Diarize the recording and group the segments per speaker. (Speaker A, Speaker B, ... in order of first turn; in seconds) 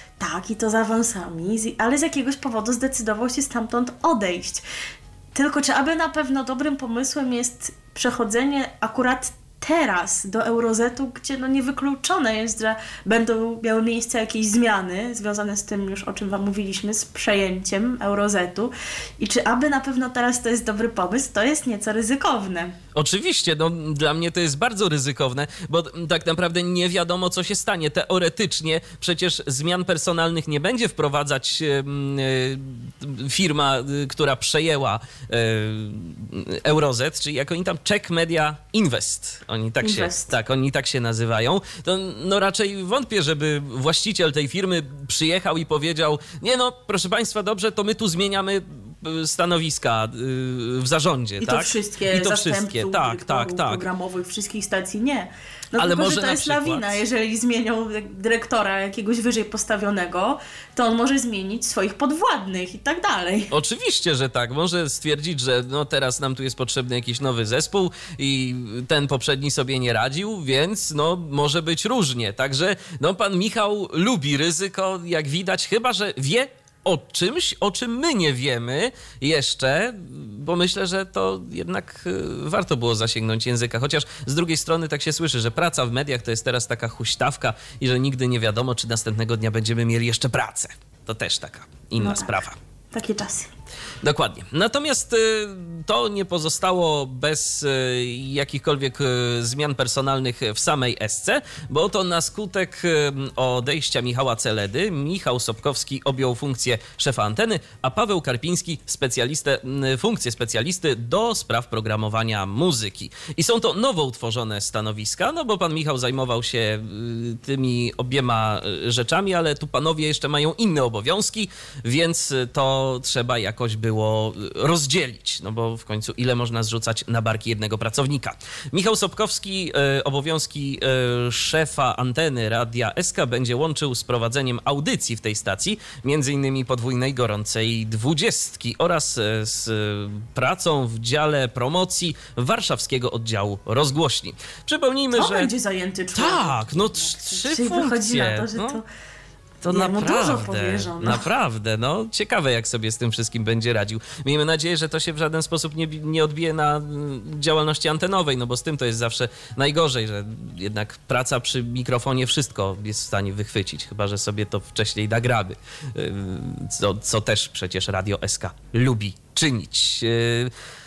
Speaker A: 0.2-4.6, 5.3-22.7, 39.8-40.3, 51.4-63.5, 92.0-93.5, 145.1-148.8, 149.7-151.2
Speaker B: 22.9-53.9, 55.8-57.0, 63.5-92.6, 94.0-145.5, 146.1-148.8, 149.6-170.5